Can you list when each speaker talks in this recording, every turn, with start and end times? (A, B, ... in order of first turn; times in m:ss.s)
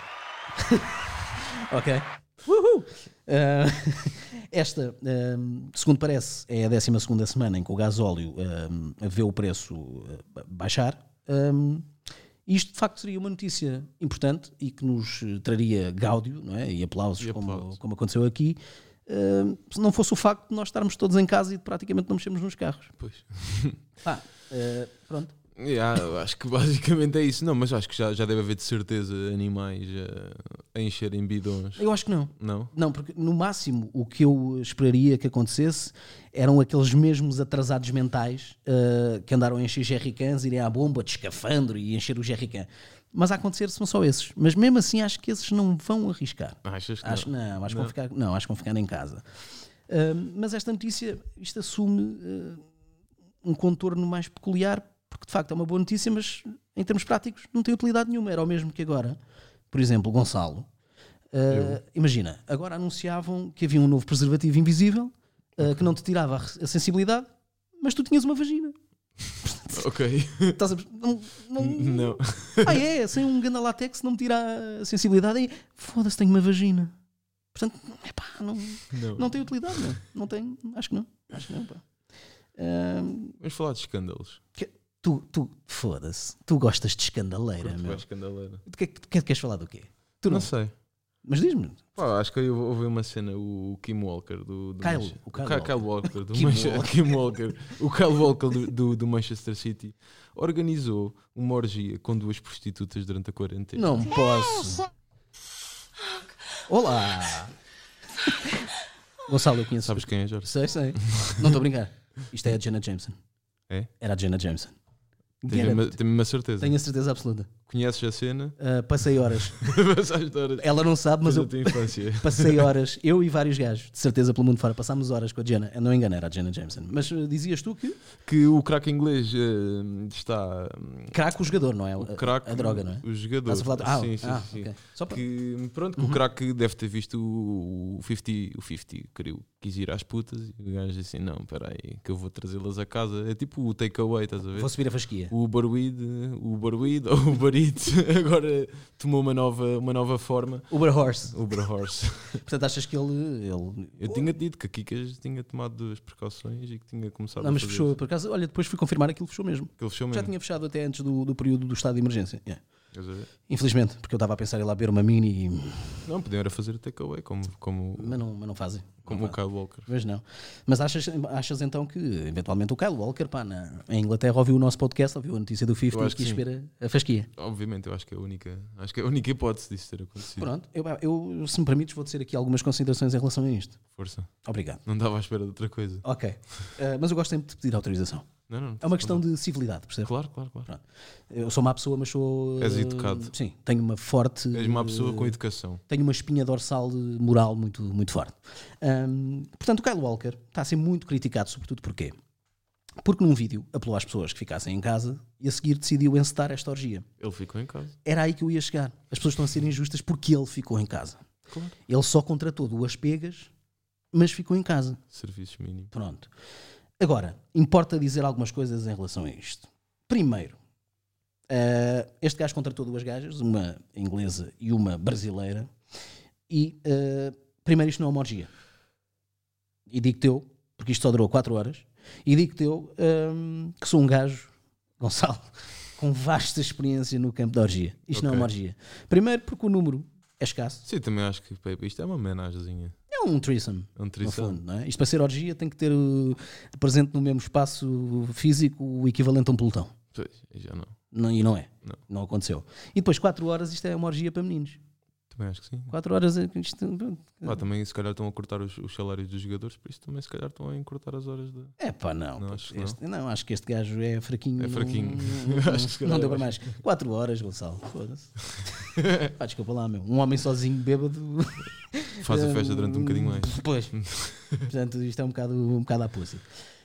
0:00.6-0:11.9 A
0:12.4-0:22.9 A
0:17.2-0:17.8 B
0:23.0-0:23.8 B
0:24.0-0:25.3 A
0:25.6-0:31.8 B
0:31.8-0:49.2 A
0:32.4-0:32.7 B
0:46.6-0:47.9 B
0:49.9-0:52.6 A
0:53.4-0:59.2 A
0:59.7-1:00.7 A
1:01.3-1:08.7 A
1:01.5-1:01.8 B
1:09.4-1:09.8 A
1:09.7-1:10.6 B
1:10.5-1:16.9 A
1:11.6-1:12.8 B
1:17.5-1:21.8 A
1:18.9-1:20.0 B
1:22.6-1:23.4 A
1:23.4-1:24.4 B
1:24.6-1:28.0 A
1:27.6-1:28.6 B
1:28.6-1:30.5 A
1:30.3-1:30.7 B
1:31.2-1:31.8 A
1:32.0-1:44.0 B
1:34.8-1:37.1 A
1:43.8-1:44.9 A
1:46.7-1:47.5 A
1:49.2-1:53.2 A
1:49.8-1:51.6 B
1:54.0-1:54.7 A
1:55.4-1:56.0 A
1:55.5-1:56.8 B
1:56.6-1:57.5 A
1:57.7-1:58.6 B
1:58.6-1:59.6 A
1:59.5-2:02.7 B
2:00.6-2:08.0 A
2:08.2-2:11.2 B
2:11.1-2:15.2 A
2:12.0-2:24.7 B
2:24.5-2:25.3 A
2:25.3-2:30.7 B
2:30.7-2:31.4 A
2:31.3-2:32.4 B
2:32.4-2:34.3 A
2:34.0-2:38.0 B
2:37.4-2:42.6 A
2:39.8-2:40.3 B
2:42.9-2:43.3 B
2:43.5-2:46.0 A
2:46.0-2:48.2 B
2:48.0-2:57.3 A
2:49.0-2:49.9 B
2:55.9-2:56.4 B
2:57.4-3:00.5 B
3:00.4-3:03.8 A
3:03.9-3:04.3 B
3:04.4-3:04.8 A
3:04.8-3:06.0 B
3:06.0-3:10.1 A
3:08.5-3:09.2 B
3:10.0-3:10.7 B
3:10.6-3:15.4 A
3:12.6-3:13.3 B
3:14.5-3:15.8 B
3:15.9-3:22.2 A
3:23.0-3:27.0 A
3:27.2-3:28.0 B
3:28.0-3:31.2 A
3:31.5-3:31.7 B
3:31.9-3:33.5 A
3:34.1-3:35.0 A
3:35.1-3:35.9 B
3:35.9-3:36.3 A
3:37.0-3:40.6 A
3:41.5-3:45.7 A
3:46.5-3:48.5 A
3:49.9-4:00.8 A
3:58.1-3:58.5 B
4:00.8-4:03.0 B
4:03.1-4:09.9 A
4:04.0-4:04.6 B
4:10.1-4:11.0 B
4:11.1-4:14.8 A
4:15.3-4:15.9 B
4:15.9-4:17.6 A
4:17.4-4:21.8 B
4:21.8-4:34.0 A
4:22.4-4:23.0 B
4:24.6-4:26.6 B
4:32.2-4:34.6 B
4:34.6-4:36.4 A